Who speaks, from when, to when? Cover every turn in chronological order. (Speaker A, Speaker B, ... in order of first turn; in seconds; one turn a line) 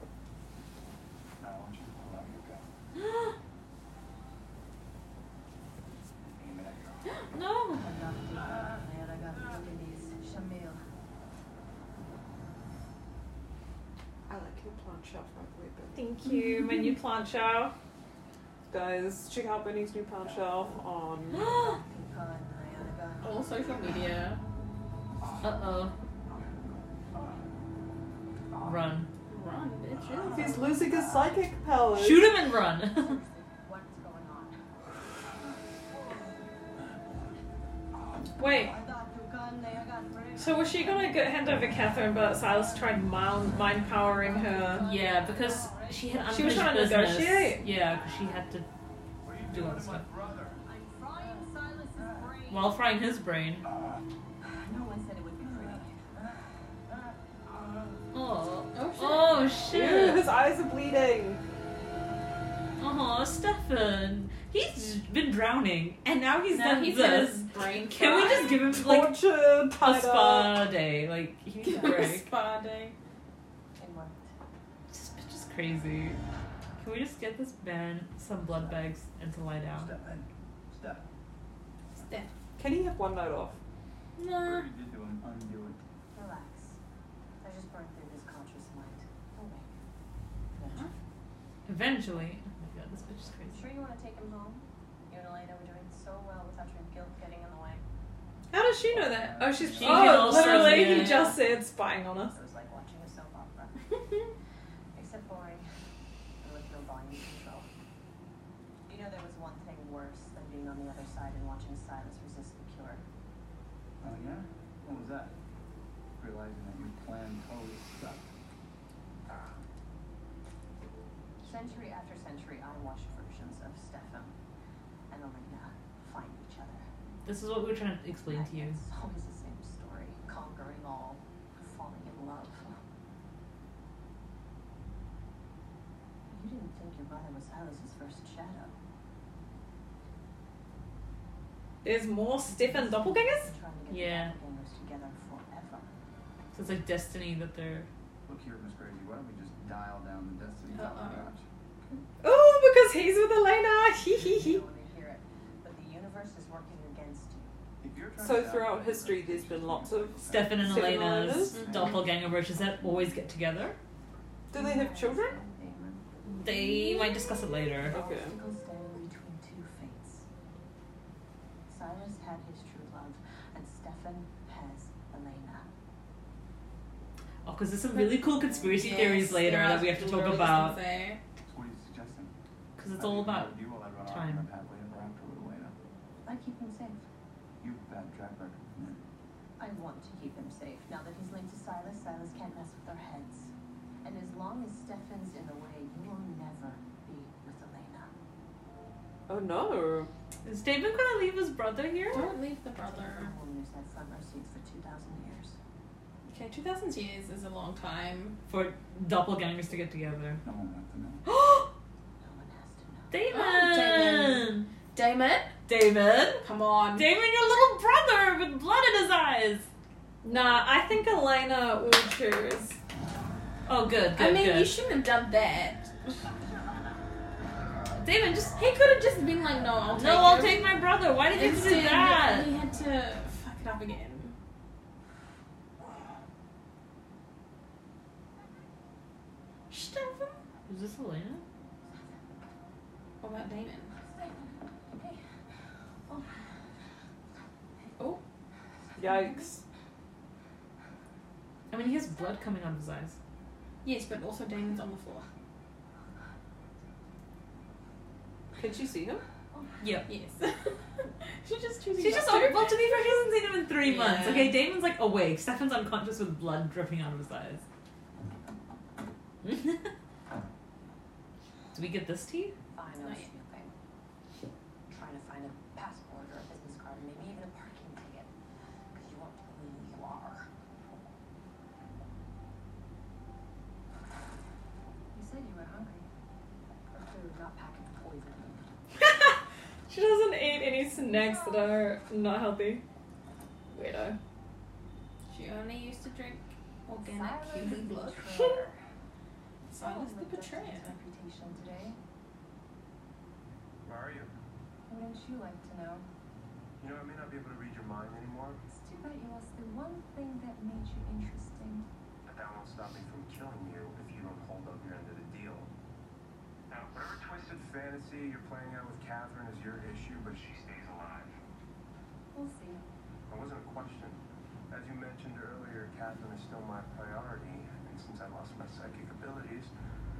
Speaker A: 1.4-2.2
Speaker B: 1.4-2.6
Speaker C: 3.0-3.3
Speaker B: 6.4-7.1
Speaker C: 7.3-7.8
Speaker D: 7.7-10.8
Speaker E: 14.3-16.1
Speaker F: 15.9-17.7
Speaker E: 18.7-21.5
Speaker D: 20.2-20.8
Speaker C: 21.3-21.8
Speaker D: 21.5-24.1
Speaker G: 23.2-24.4
Speaker C: 25.4-25.9
Speaker C: 28.6-29.1
Speaker G: 29.3-30.7
Speaker E: 30.3-32.3
Speaker C: 31.9-33.2
Speaker D: 32.9-34.5
Speaker F: 38.4-38.8
Speaker D: 38.7-41.2
Speaker F: 40.4-44.8
Speaker D: 44.2-46.6
Speaker C: 44.8-48.6
Speaker F: 46.3-47.6
Speaker B: 49.2-50.6
Speaker C: 49.5-50.0
Speaker A: 49.7-50.4
Speaker D: 50.6-52.8
Speaker C: 52.5-53.7
Speaker B: 53.7-54.0
Speaker D: 54.4-56.0
Speaker B: 55.4-55.8
Speaker B: 57.5-57.9
Speaker C: 58.1-60.2
Speaker G: 58.7-59.6
Speaker E: 59.6-61.4
Speaker C: 62.8-72.3
Speaker G: 66.5-68.6
Speaker E: 68.7-70.6
Speaker G: 71.6-72.9
Speaker E: 71.9-72.2
Speaker D: 73.8-74.2
Speaker C: 74.9-76.2
Speaker C: 76.8-79.9
Speaker B: 79.7-81.0
Speaker G: 82.0-82.3
Speaker E: 82.6-83.6
Speaker G: 84.2-84.7
Speaker B: 84.4-85.8
Speaker D: 86.1-86.8
Speaker D: 87.4-89.7
Speaker D: 90.5-90.9
Speaker C: 91.7-93.7
Speaker D: 93.5-97.8
Speaker F: 98.5-102.3
Speaker B: 98.9-100.9
Speaker C: 99.8-101.4
Speaker D: 102.3-103.8
Speaker D: 104.9-105.7
Speaker D: 106.4-107.7
Speaker D: 108.9-113.0
Speaker B: 114.0-115.3
Speaker B: 116.2-118.3
Speaker D: 119.3-119.6
Speaker D: 121.4-124.3
Speaker D: 125.1-126.9
Speaker C: 127.2-128.8
Speaker D: 128.2-132.8
Speaker D: 136.3-138.7
Speaker F: 141.8-143.5
Speaker D: 142.5-145.9
Speaker C: 143.9-144.3
Speaker C: 146.5-147.9
Speaker B: 148.2-152.0
Speaker G: 150.7-151.3
Speaker F: 152.2-154.6
Speaker D: 154.3-157.5
Speaker B: 157.8-160.9
Speaker E: 158.2-161.7
Speaker C: 160.2-163.8
Speaker G: 161.3-161.8
Speaker B: 161.5-162.1
Speaker E: 164.5-165.4
Speaker D: 164.5-167.1
Speaker C: 166.2-167.9
Speaker D: 167.8-170.2
Speaker E: 167.8-168.4
Speaker D: 171.7-175.7
Speaker C: 177.4-180.8
Speaker D: 177.9-179.1
Speaker G: 178.7-181.2
Speaker B: 181.4-182.3
Speaker C: 182.8-184.4
Speaker B: 182.9-185.7
Speaker D: 186.2-187.0
Speaker B: 187.6-189.0
Speaker D: 189.6-193.5
Speaker D: 194.0-198.1
Speaker E: 199.3-200.1
Speaker C: 200.4-202.3
Speaker G: 202.1-203.3
Speaker D: 202.9-205.6
Speaker G: 206.2-208.4
Speaker C: 208.5-210.4
Speaker B: 210.4-211.2
Speaker C: 211.2-211.7
Speaker D: 212.2-213.1
Speaker C: 213.1-214.7
Speaker G: 213.3-215.6
Speaker C: 215.7-219.7
Speaker G: 216.4-217.1
Speaker F: 220.2-222.8
Speaker C: 223.7-224.8
Speaker G: 224.1-225.9
Speaker C: 227.9-228.6
Speaker G: 228.5-230.6
Speaker C: 229.9-232.5
Speaker G: 231.3-234.3
Speaker G: 239.7-240.4
Speaker C: 240.7-241.4
Speaker D: 241.8-242.1
Speaker G: 243.2-243.9
Speaker D: 244.0-245.2
Speaker D: 246.1-246.4
Speaker D: 248.9-249.4
Speaker E: 248.9-249.6
Speaker C: 251.7-253.2
Speaker G: 253.8-255.2
Speaker E: 258.6-259.2
Speaker D: 259.5-259.8
Speaker C: 259.8-260.1
Speaker G: 260.1-260.8
Speaker G: 261.4-263.0
Speaker C: 262.0-267.6
Speaker G: 263.9-264.5
Speaker C: 269.4-269.9
Speaker C: 271.7-272.5
Speaker D: 272.7-273.7
Speaker G: 273.0-273.3
Speaker D: 274.9-278.3
Speaker D: 278.9-280.5
Speaker D: 285.1-286.1
Speaker D: 286.9-288.6
Speaker F: 289.9-292.8
Speaker D: 291.0-291.8
Speaker F: 293.7-294.2
Speaker G: 295.3-298.4
Speaker D: 297.0-298.8
Speaker G: 299.7-301.0
Speaker D: 299.8-302.0
Speaker A: 303.8-304.3
Speaker D: 304.9-306.1
Speaker A: 306.8-308.6
Speaker D: 308.7-311.8
Speaker A: 312.2-315.7
Speaker A: 316.7-321.4
Speaker D: 322.3-322.8
Speaker A: 323.3-329.7